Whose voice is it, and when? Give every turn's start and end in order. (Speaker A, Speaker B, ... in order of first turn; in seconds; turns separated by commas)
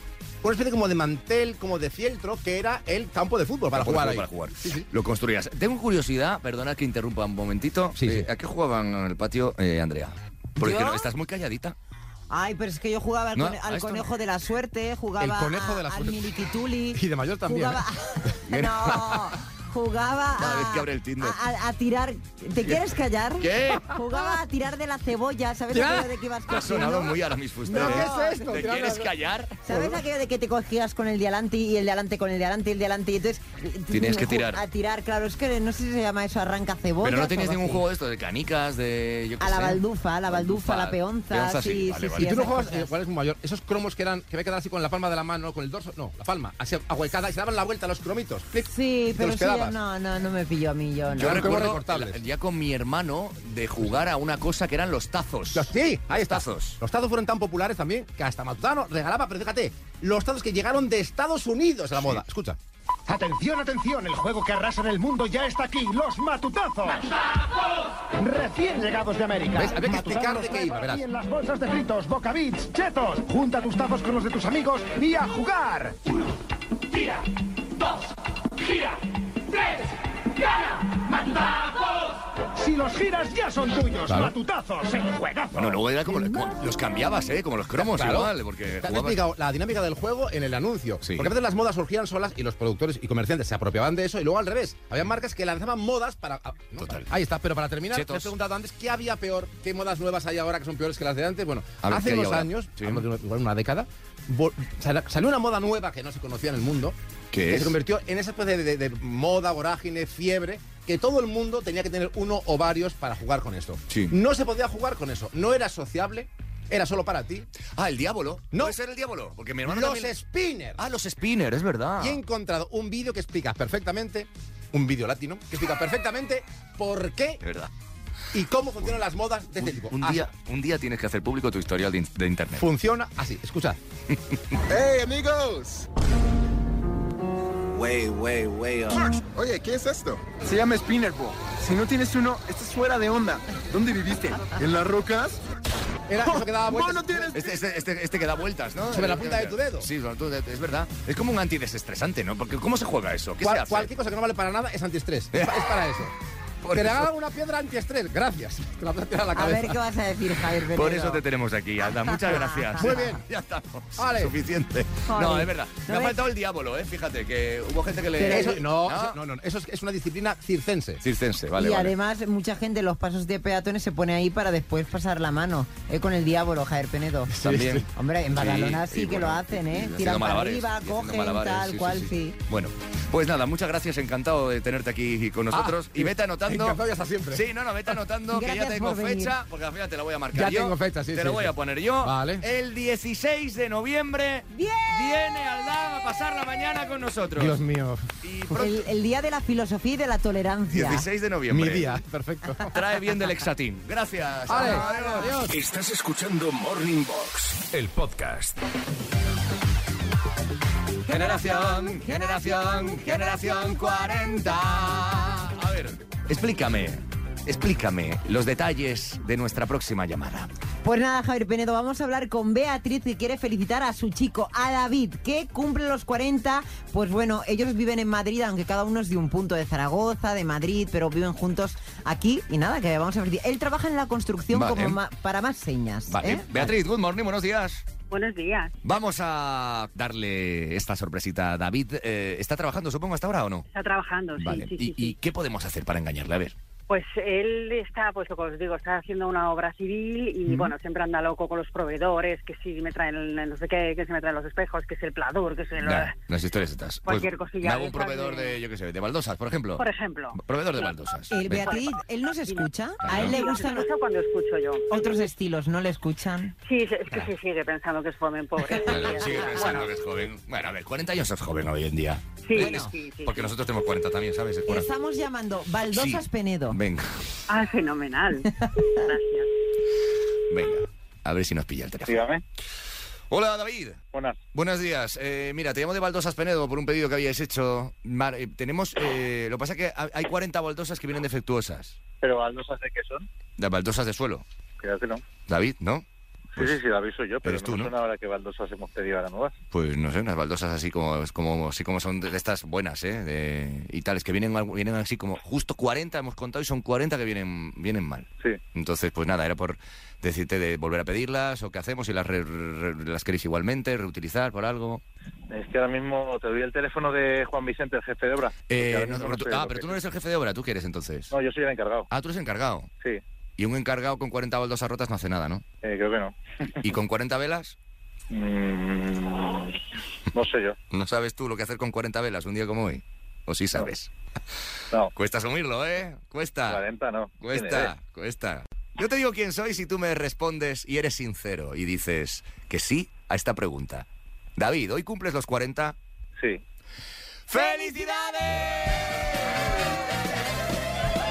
Speaker A: 0.4-4.9, Speaker B: 3.7-11.8, Speaker A: 8.0-8.3, Speaker C: 10.6-11.0, Speaker C: 12.3-28.6, Speaker B: 13.3-14.1, Speaker A: 15.2-17.8, Speaker B: 18.5-19.4, Speaker B: 20.4-21.4, Speaker B: 23.4-24.2, Speaker B: 26.5-29.6, Speaker A: 27.7-29.1, Speaker C: 29.6-37.8, Speaker A: 29.7-30.0, Speaker B: 33.9-34.6, Speaker B: 37.0-42.4, Speaker C: 39.4-42.9, Speaker A: 42.1-49.8, Speaker C: 48.7-51.5, Speaker A: 51.1-52.2, Speaker B: 51.1-56.8, Speaker A: 55.5-62.6, Speaker D: 63.1-67.1, Speaker D: 68.1-76.0, Speaker A: 69.5-71.0, Speaker D: 80.4-85.8, Speaker A: 84.1-84.3, Speaker B: 85.5-89.2, Speaker A: 87.8-107.0, Speaker B: 91.0-91.3, Speaker B: 96.8-97.1, Speaker B: 97.9-98.3, Speaker B: 101.8-103.0, Speaker B: 107.3-107.8, Speaker A: 107.5-117.5, Speaker B: 113.9-114.1, Speaker B: 117.8-120.1, Speaker A: 119.6-120.8, Speaker B: 120.8-122.2, Speaker A: 122.0-127.4, Speaker B: 127.4-127.7, Speaker A: 128.3-130.2, Speaker B: 129.6-132.7, Speaker A: 132.6-133.8, Speaker E: 134.7-135.9, Speaker E: 137.7-145.4, Speaker A: 146.1-147.3, Speaker E: 146.2-147.6, Speaker B: 147.3-153.9, Speaker A: 148.9-149.9, Speaker A: 153.4-156.1, Speaker B: 155.3-155.7, Speaker B: 156.6-157.1, Speaker A: 156.7-159.8, Speaker C: 159.3-161.2, Speaker B: 160.6-169.2, Speaker C: 162.1-162.7, Speaker A: 162.8-163.2, Speaker A: 164.0-164.3, Speaker C: 165.1-166.2, Speaker C: 168.1-168.6, Speaker A: 168.3-171.0, Speaker B: 171.0-171.9, Speaker C: 171.6-177.3, Speaker A: 177.3-177.8, Speaker B: 177.3-186.8, Speaker C: 177.9-182.4, Speaker A: 185.5-187.4, Speaker B: 187.3-197.6, Speaker C: 188.3-189.3, Speaker A: 190.3-192.4, Speaker C: 194.5-195.2, Speaker A: 197.3-198.1, Speaker B: 198.2-198.9, Speaker C: 198.5-201.0, Speaker B: 200.7-202.0, Speaker A: 201.5-202.8, Speaker B: 202.7-205.4, Speaker A: 204.5-205.5, Speaker C: 204.6-205.3, Speaker F: 205.5-208.6, Speaker C: 211.1-215.3, Speaker B: 211.1-220.5, Speaker C: 220.8-236.7, Speaker B: 234.5-235.0, Speaker B: 236.1-237.8, Speaker G: 238.1-238.7, Speaker B: 238.8-243.6, Speaker G: 243.7-245.2, Speaker B: 244.4-246.5, Speaker G: 246.9-256.1, Speaker B: 250.5-250.7, Speaker B: 255.8-259.8, Speaker G: 257.1-258.6, Speaker G: 259.8-260.9, Speaker B: 260.3-261.7, Speaker C: 261.3-263.9, Speaker G: 261.5-261.9, Speaker G: 262.5-265.2, Speaker B: 263.0-263.4, Speaker C: 264.9-266.5, Speaker G: 266.6-269.9, Speaker C: 268.8-269.5, Speaker B: 268.8-274.9, Speaker G: 272.4-273.5, Speaker C: 272.5-272.9, Speaker C: 274.7-276.8, Speaker B: 275.9-277.2, Speaker G: 277.5-278.5, Speaker C: 278.5-279.0, Speaker G: 279.1-279.5, Speaker B: 280.5-282.2, Speaker H: 282.1-282.4, Speaker B: 283.3-284.0, Speaker H: 284.1-284.4, Speaker B: 284.5-292.0, Speaker H: 292.2-293.3, Speaker B: 293.6-294.4, Speaker H: 294.8-295.2, Speaker B: 295.5-296.0, Speaker H: 296.6-299.5, Speaker B: 297.4-297.9, Speaker B: 299.7-315.0, Speaker H: 315.5-320.0, Speaker B: 318.7-321.3, Speaker H: 321.3-322.1, Speaker B: 322.1-322.9, Speaker B: 323.6-325.6, Speaker H: 325.8-326.4, Speaker B: 326.8-327.8, Speaker H: 328.3-329.8, Speaker H: 330.3-330.8, Speaker B: 330.9-334.1, Speaker B: 335.1-336.8, Speaker H: 336.7-337.9, Speaker B: 337.4-344.1, Speaker B: 344.6-345.9, Speaker B: 347.5-349.4